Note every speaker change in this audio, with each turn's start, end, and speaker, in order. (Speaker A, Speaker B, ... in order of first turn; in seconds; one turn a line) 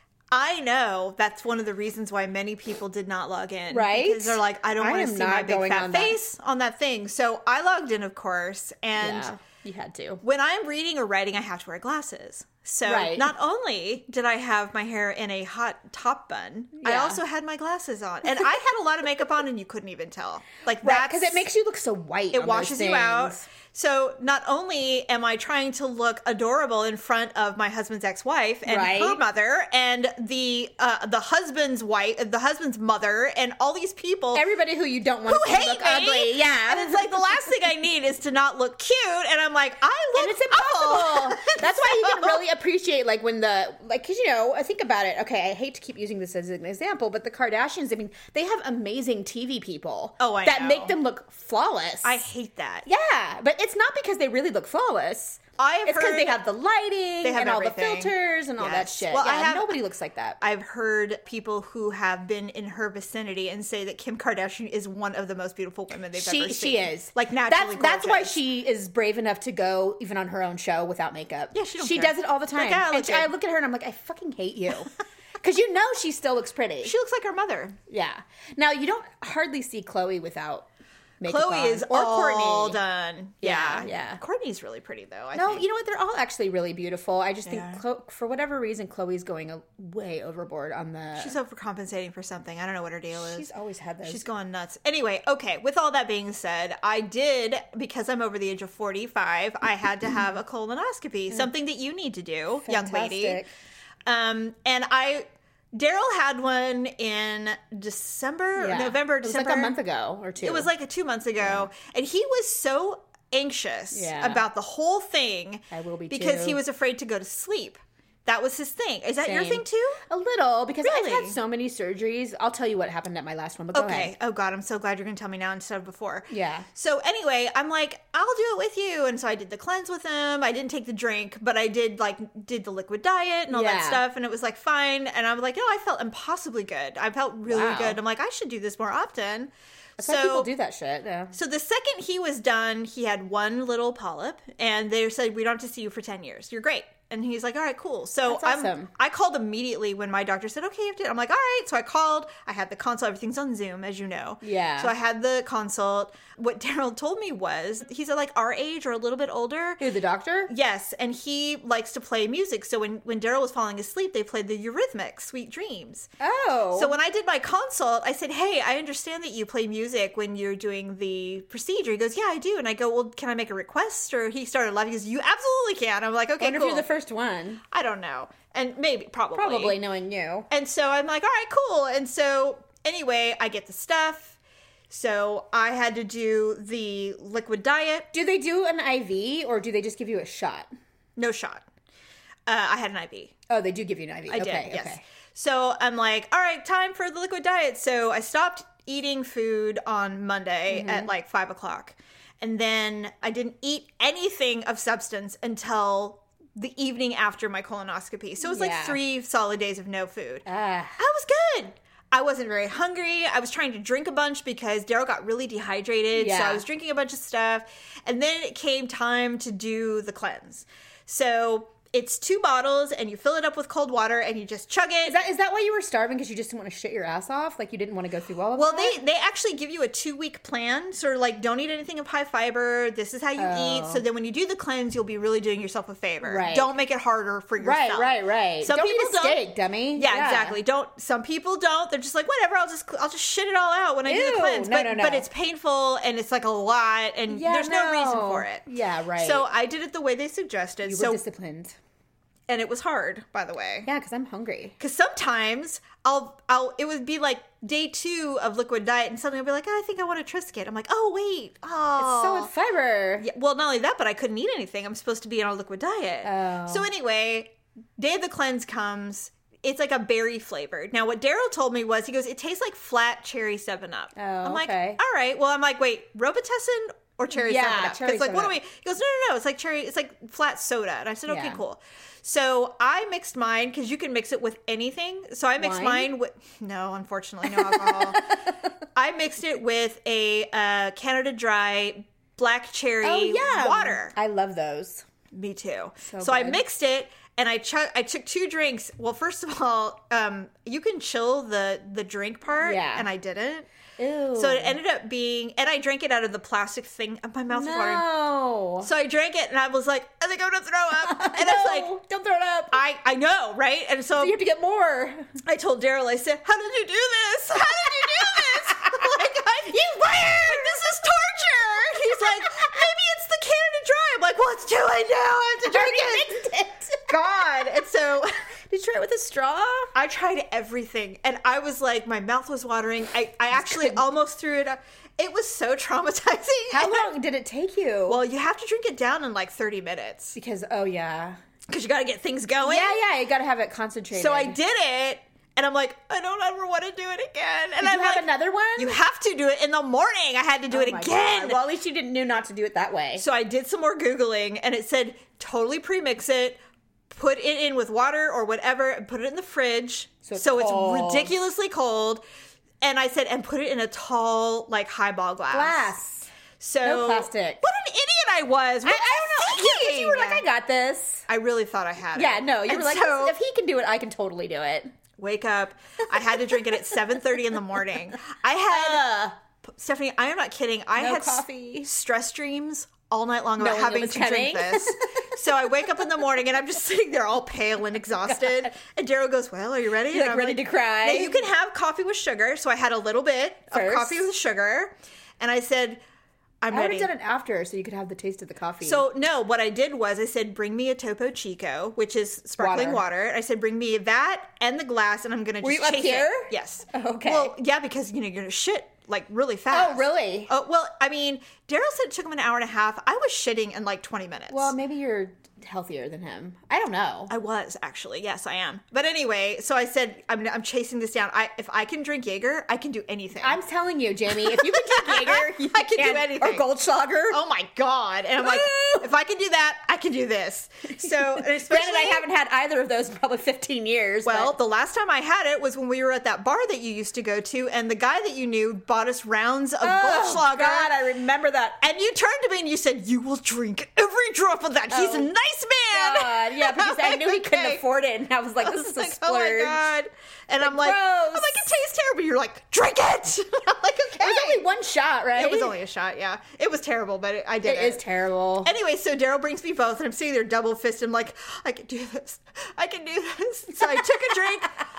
Speaker A: 0.3-9.3
Speaker B: 3.7-6.2
Speaker B: 9.0-10.2
Speaker A: 10.2-21.5
Speaker B: 12.8-13.3
Speaker B: 16.8-17.2
Speaker B: 20.8-23.5
Speaker A: 22.3-34.4
Speaker B: 28.6-29.2
Speaker B: 34.3-37.2
Speaker A: 35.3-42.4
Speaker B: 40.1-52.2
Speaker A: 50.2-51.0
Speaker A: 52.0-52.9
Speaker B: 52.9-60.4
Speaker A: 55.6-56.4
Speaker A: 57.2-59.8
Speaker A: 60.4-68.4
Speaker B: 66.2-76.9
Speaker A: 71.5-73.3
Speaker A: 76.8-77.8
Speaker B: 77.9-80.7
Speaker B: 81.2-82.8
Speaker A: 81.2-85.7
Speaker B: 83.4-84.2
Speaker B: 85.3-91.3
Speaker A: 87.5-87.8
Speaker A: 91.2-93.5
Speaker B: 93.1-94.2
Speaker A: 94.0-103.4
Speaker B: 102.7-103.5
Speaker A: 104.1-109.8
Speaker B: 108.6-110.7
Speaker A: 110.4-120.0
Speaker B: 111.4-111.7
Speaker B: 113.9-114.5
Speaker B: 115.7-116.6
Speaker B: 119.2-124.1
Speaker A: 120.8-121.4
Speaker A: 123.7-140.5
Speaker B: 126.3-126.7
Speaker B: 133.5-134.0
Speaker B: 137.5-138.0
Speaker B: 140.0-141.3
Speaker A: 141.3-159.8
Speaker B: 148.3-148.9
Speaker B: 154.4-154.9
Speaker B: 159.8-160.5
Speaker A: 160.5-166.1
Speaker B: 166.2-166.9
Speaker A: 166.8-176.9
Speaker B: 176.4-177.6
Speaker A: 177.7-179.8
Speaker B: 179.3-180.5
Speaker A: 180.5-184.4
Speaker A: 184.9-188.1
Speaker B: 188.1-190.7
Speaker A: 191.2-191.7
Speaker A: 192.5-193.4
Speaker B: 193.5-195.0
Speaker A: 194.3-210.5
Speaker B: 200.7-201.1
Speaker B: 208.4-209.0
Speaker B: 210.5-211.0
Speaker A: 211.0-225.2
Speaker B: 216.1-216.7
Speaker B: 225.1-229.0
Speaker A: 228.6-239.4
Speaker B: 233.4-234.0
Speaker B: 236.2-236.7
Speaker B: 237.6-240.6
Speaker A: 240.0-248.7
Speaker B: 244.1-245.3
Speaker B: 247.3-249.5
Speaker A: 249.2-251.2
Speaker B: 250.8-251.8
Speaker A: 252.5-253.9
Speaker B: 253.8-254.8
Speaker A: 254.8-262.5
Speaker B: 262.0-263.3
Speaker A: 263.2-288.3
Speaker B: 266.2-266.9
Speaker B: 274.2-275.0
Speaker B: 277.3-278.6
Speaker B: 281.3-281.6
Speaker B: 285.6-286.1
Speaker B: 287.5-288.5
Speaker A: 288.9-294.1
Speaker B: 293.0-295.1
Speaker A: 295.3-303.7
Speaker B: 296.1-296.6
Speaker B: 302.6-303.1
Speaker B: 304.0-304.8
Speaker A: 304.4-308.1
Speaker B: 307.5-308.9
Speaker A: 308.8-311.9
Speaker B: 311.0-312.8
Speaker A: 312.7-314.4
Speaker B: 314.2-315.3
Speaker A: 315.4-326.3
Speaker B: 318.0-320.8
Speaker B: 322.0-322.7
Speaker B: 325.6-327.2
Speaker A: 327.1-328.4
Speaker B: 328.7-329.9
Speaker A: 329.9-337.1
Speaker B: 333.5-334.1
Speaker B: 336.7-338.2
Speaker A: 338.1-340.4
Speaker B: 340.4-341.4
Speaker A: 341.7-343.0
Speaker B: 342.6-344.6
Speaker A: 344.1-351.6
Speaker B: 347.8-349.0
Speaker B: 350.7-353.2
Speaker A: 353.2-356.6
Speaker A: 357.1-362.2
Speaker B: 360.3-361.4
Speaker A: 362.8-365.9
Speaker B: 365.5-366.3
Speaker A: 366.6-370.4
Speaker B: 366.8-367.6
Speaker B: 368.8-371.3
Speaker A: 371.3-373.4
Speaker B: 372.1-374.9
Speaker A: 375.2-379.1
Speaker B: 376.3-376.8
Speaker B: 378.7-379.4
Speaker A: 379.7-396.0
Speaker B: 381.0-381.9
Speaker B: 383.6-385.4
Speaker B: 388.2-388.7
Speaker B: 390.1-391.4
Speaker B: 393.7-394.3
Speaker A: 396.6-397.1
Speaker B: 396.7-399.1
Speaker A: 398.8-414.7
Speaker B: 402.6-403.0
Speaker B: 405.6-407.5
Speaker B: 409.7-410.5
Speaker B: 414.5-417.3
Speaker A: 417.3-423.6
Speaker B: 423.4-427.4
Speaker A: 424.4-426.7
Speaker A: 427.3-432.2
Speaker B: 428.4-429.1
Speaker B: 431.0-434.6
Speaker A: 434.2-440.9
Speaker B: 439.8-441.8
Speaker A: 441.8-447.8
Speaker B: 444.9-445.3
Speaker B: 445.9-449.9
Speaker A: 448.6-454.6
Speaker B: 450.6-451.7
Speaker B: 454.2-455.8
Speaker A: 455.4-458.0
Speaker B: 457.6-458.7
Speaker A: 458.6-464.8